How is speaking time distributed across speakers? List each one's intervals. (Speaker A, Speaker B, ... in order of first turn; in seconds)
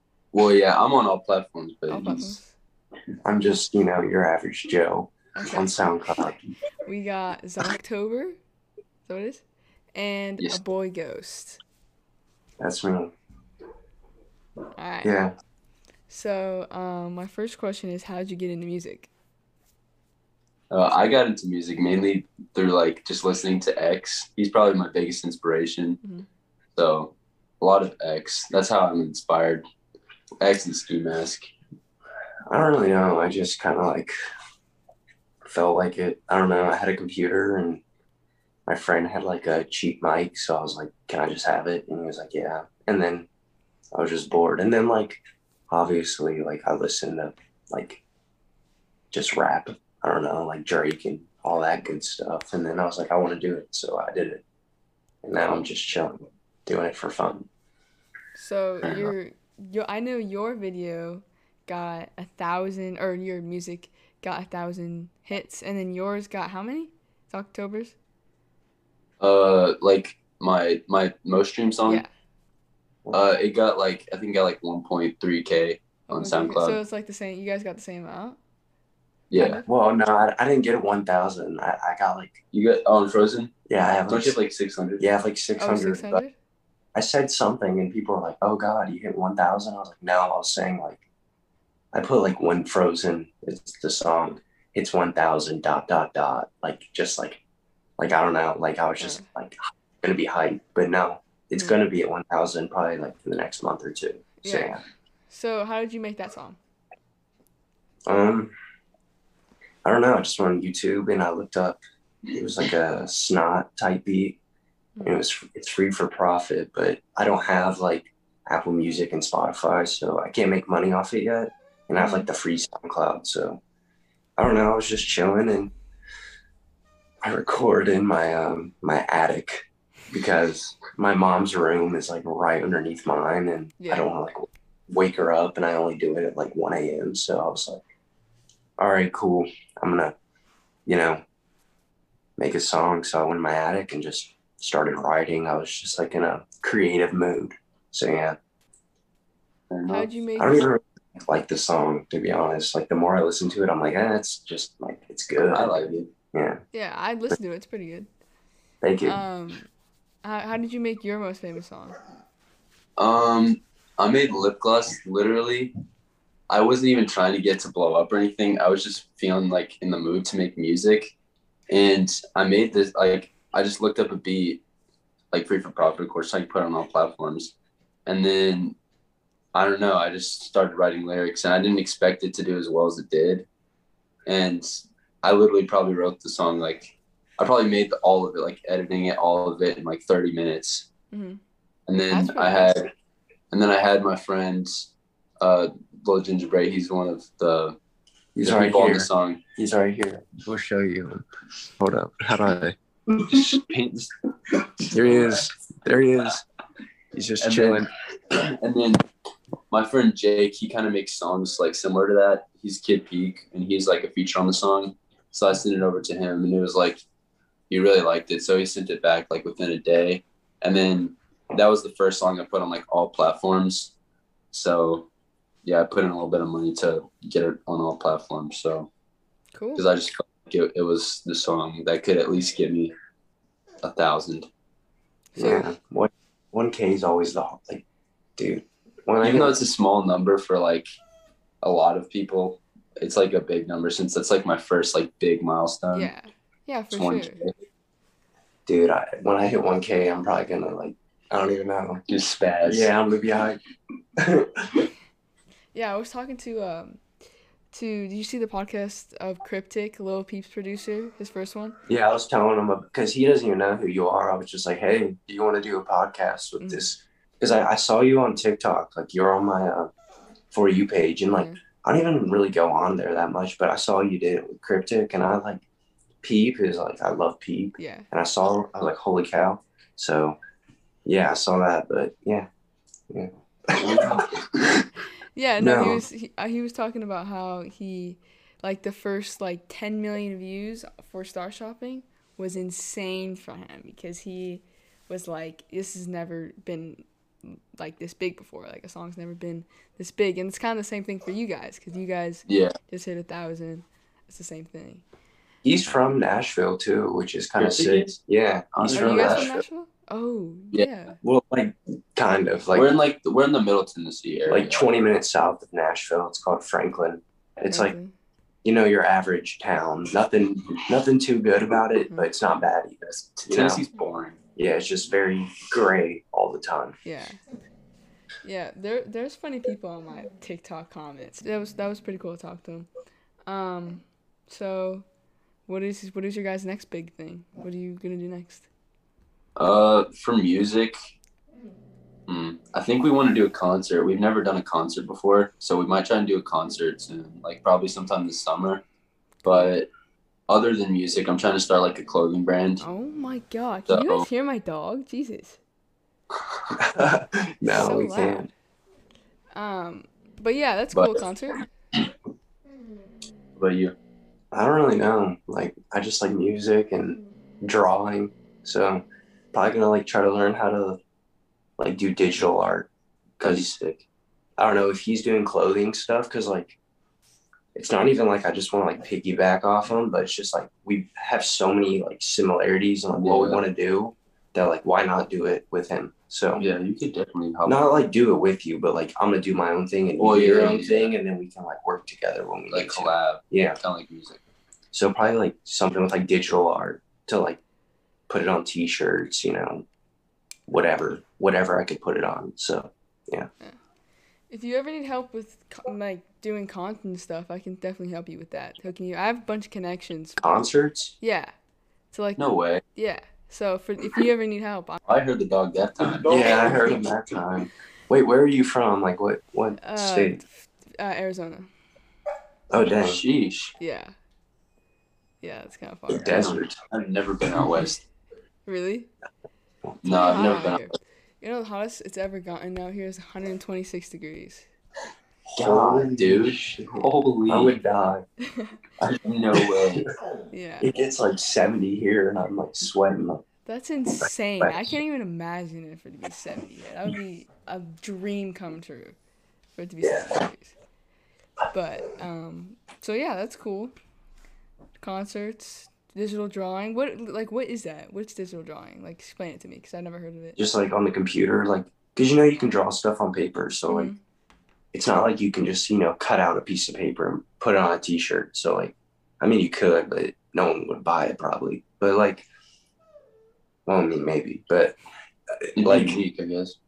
Speaker A: 0.3-2.4, 20.7-26.0, 26.8-29.6, 30.4-31.5, 58.8-59.1, 69.2-72.0, 73.1-76.8, 79.3-79.6, 82.5-83.5, 84.1-85.0, 149.7-150.1, 155.5-156.1, 163.0-165.7, 166.5-171.1, 171.7-174.6, 175.3-177.5, 178.1-178.8, 179.5-183.5, 184.2-184.7, 185.2-190.9, 191.9-192.9, 193.5-197.8, 198.4-199.4, 203.5-204.1, 204.9-205.4, 207.4-209.0, 209.7-217.0, 217.7-223.9, 224.5-225.1, 225.6-228.9, 229.7-232.9, 233.8-234.5, 239.2-240.9, 241.6-246.1, 246.9-247.5, 252.1-252.9, 283.8-284.8, 302.4-302.7, 307.6-308.2, 308.7-309.5, 312.7-314.9, 323.1-324.4, 339.6-340.9, 342.3-348.8, 349.4-349.9, 350.5-352.9, 353.9-354.3, 360.9-361.2, 363.6-363.9, 373.4-373.7, 383.1-383.6, 386.6-387.8, 390.2-391.1, 392.7-394.4, 412.4-412.8, 415.0-416.9, 423.0-423.7, 426.3-428.1, 430.0-430.9, 435.6-437.8, 439.2-440.0, 475.8-476.8
Speaker B: 1.9-2.5, 5.3-6.2, 6.8-8.4, 9.0-9.4, 9.9-11.6, 14.8-15.1, 16.1-19.1, 55.4-55.7, 58.4-68.0, 71.8-72.1, 76.1-78.4, 79.3-79.7, 85.6-86.3, 99.0-99.3, 101.5-101.8, 104.4-104.8, 105.3-106.6, 115.0-115.2, 121.9-122.3, 133.8-134.1, 149.9-150.7, 156.7-158.1, 159.0-159.7, 160.2-162.0, 191.1-191.4, 192.1-192.8, 229.5-229.8, 235.3-235.7, 245.9-247.4, 255.7-257.0, 257.7-261.8, 266.6-266.9, 271.3-271.6, 277.8-278.1, 285.3-305.0, 308.9-311.2, 317.7-318.1, 327.0-327.4, 328.4-332.9, 333.4-335.1, 335.6-338.7, 349.4-349.7, 352.8-355.6, 357.6-358.5, 359.5-361.7, 404.5-410.6, 411.2-411.5, 412.1-415.0, 419.8-421.7, 423.8-424.1, 425.4-426.6, 428.6-429.1, 430.1-434.7, 438.5-438.8, 440.5-440.9, 443.6-449.2, 449.7-450.8, 451.7-453.9, 455.0-460.6, 463.9-464.2
Speaker C: 3.2-6.4, 12.6-13.1, 15.0-15.3, 32.5-34.1, 35.4-37.8, 38.7-43.3, 43.9-48.0, 49.1-54.4, 55.2-57.5, 79.7-82.4, 83.7-84.4, 85.0-86.2, 86.9-91.0, 91.9-97.4, 98.0-104.8, 108.0-108.5, 109.8-114.4, 115.0-123.6, 124.4-125.7, 127.2-137.8, 138.8-140.1, 140.8-141.2, 142.4-148.4, 150.4-156.6, 158.8-159.2, 198.3-201.2, 201.8-203.6, 204.9-206.4, 207.1-207.9, 235.3-237.8, 238.4-239.6, 248.7-252.0, 252.7-253.6, 254.2-254.8, 261.9-269.9, 270.5-275.6, 276.2-280.4, 281.0-282.5, 283.1-284.2, 285.6-286.0, 305.6-309.6, 311.2-312.9, 314.5-317.9, 318.6-323.8, 324.6-327.0, 356.8-358.5, 364.5-371.0, 371.8-374.0, 374.6-376.8, 377.7-386.6, 387.6-393.8, 394.9-397.6, 398.3-399.9, 400.7-403.5, 410.4-411.1, 416.3-420.4, 422.7-423.2, 426.1-426.8, 435.5-438.2, 439.0-440.1, 440.8-443.4, 444.2-444.9, 450.0-450.4, 460.6-464.1, 464.9-472.4, 473.9-475.0, 475.6-476.2